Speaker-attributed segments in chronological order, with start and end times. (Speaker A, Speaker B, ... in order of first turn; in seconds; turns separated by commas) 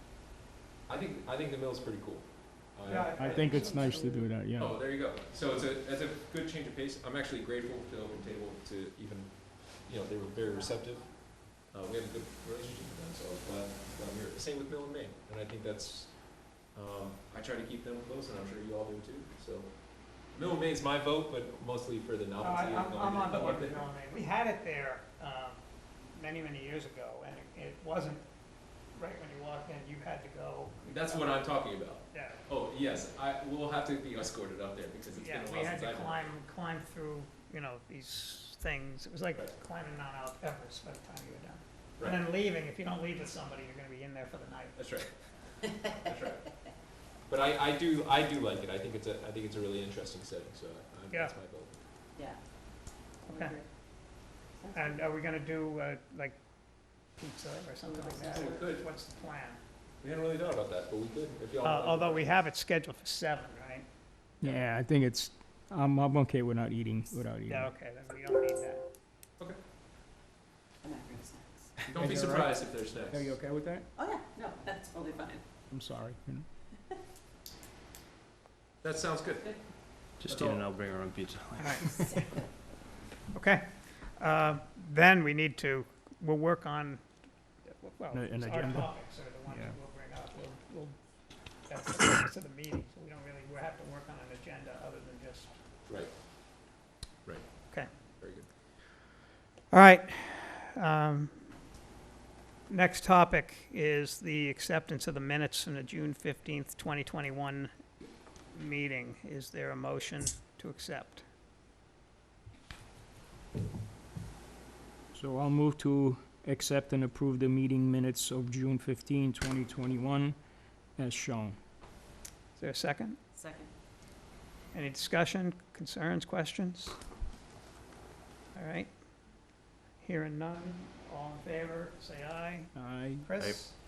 Speaker A: 0.9-4.0, Speaker B: 2.8-4.1, Speaker C: 3.1-4.8, Speaker A: 4.5-23.9, Speaker D: 10.4-11.2, Speaker B: 22.4-28.2, Speaker B: 28.9-31.3, Speaker A: 30.8-36.3, Speaker B: 32.1-32.4, Speaker B: 35.2-44.8, Speaker A: 44.8-46.6, Speaker A: 47.2-51.8, Speaker B: 51.1-51.4, Speaker D: 52.1-52.4, Speaker D: 53.2-53.7, Speaker B: 53.3-53.6, Speaker D: 54.5-55.2, Speaker B: 54.7-56.4, Speaker B: 57.2-59.6, Speaker D: 57.8-58.7, Speaker A: 58.2-58.9, Speaker A: 60.0-62.3, Speaker B: 61.6-63.9, Speaker C: 64.4-67.7, Speaker B: 67.5-68.8, Speaker D: 70.8-71.7, Speaker C: 71.8-73.9, Speaker A: 71.9-73.3, Speaker D: 73.9-75.4, Speaker C: 75.7-76.5, Speaker A: 78.8-80.7, Speaker E: 80.2-82.1, Speaker B: 81.6-82.2, Speaker B: 83.3-87.1, Speaker B: 87.7-91.0, Speaker C: 88.1-89.8, Speaker B: 91.6-95.5, Speaker A: 95.9-96.1, Speaker A: 97.2-98.5, Speaker B: 99.7-101.5, Speaker B: 102.7-107.7, Speaker B: 108.5-111.2, Speaker C: 115.1-120.4, Speaker C: 121.0-121.6, Speaker B: 122.6-123.2, Speaker D: 123.3-123.7, Speaker B: 124.7-127.0, Speaker B: 128.5-128.9, Speaker B: 130.0-133.8, Speaker C: 132.7-133.3